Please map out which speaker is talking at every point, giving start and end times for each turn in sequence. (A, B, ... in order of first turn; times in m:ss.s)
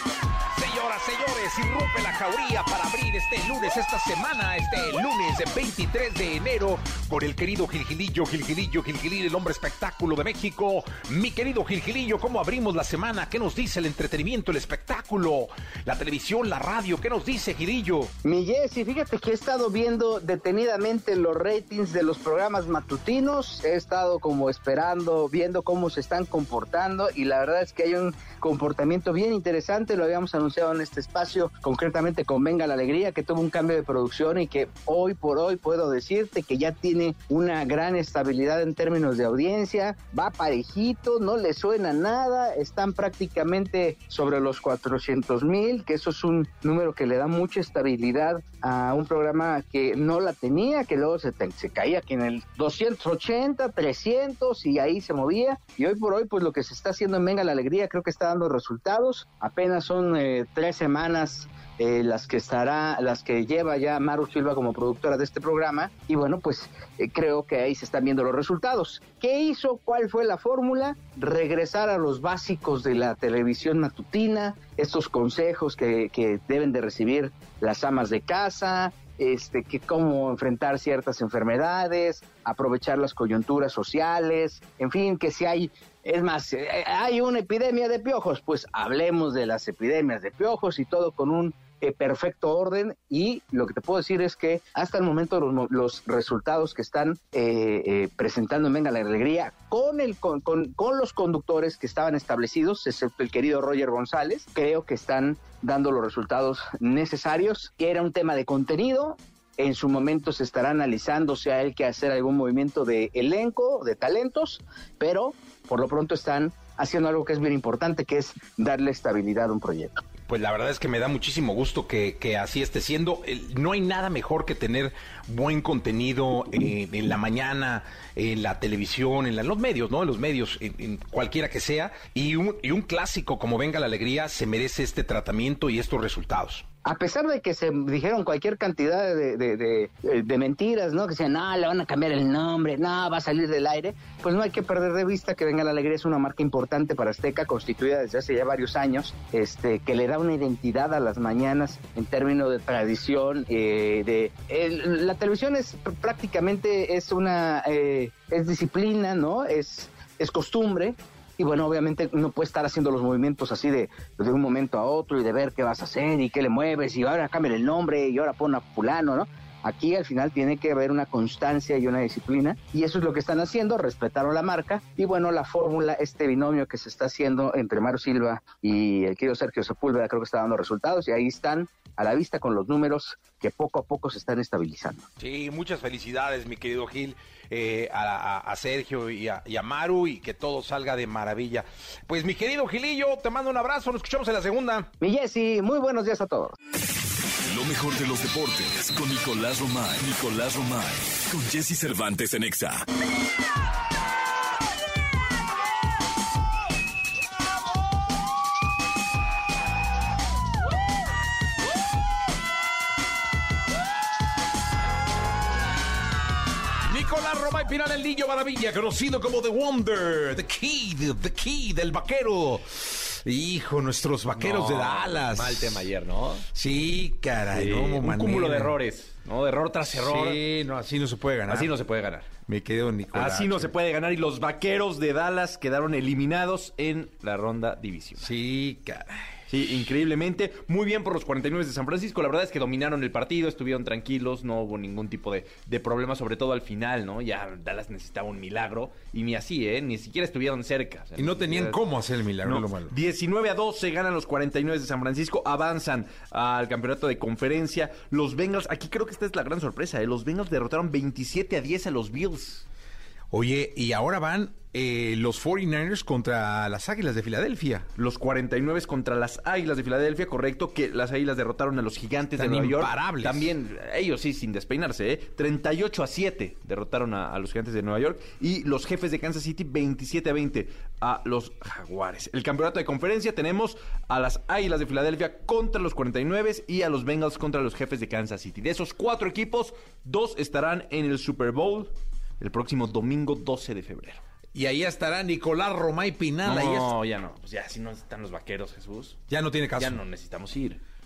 0:00.5-0:18.1 A
0:18.2-2:00.0 B
2:00.3-2:16.6 A
2:16.8-3:05.0 B
3:05.2-3:14.9 A
3:15.0-3:16.6 B
3:17.4-3:22.8 C
3:36.8-3:45.8 A
3:44.4-3:46.5 D
3:46.5-3:48.8 A
3:47.5-3:50.4 D
3:49.8-3:51.7 A
3:51.5-3:52.4 D
3:52.5-3:53.7 A
3:53.1-3:58.3 D
3:58.2-3:59.4 A
3:59.5-4:11.9 D
4:11.2-4:12.9 A
4:12.4-4:22.6 D
4:23.3-4:27.9 A
4:28.0-4:54.2 D
4:32.4-4:33.5 A
4:54.5-4:57.0 A
4:56.4-4:59.2 D
4:59.3-5:00.0 A
4:59.8-5:00.8 D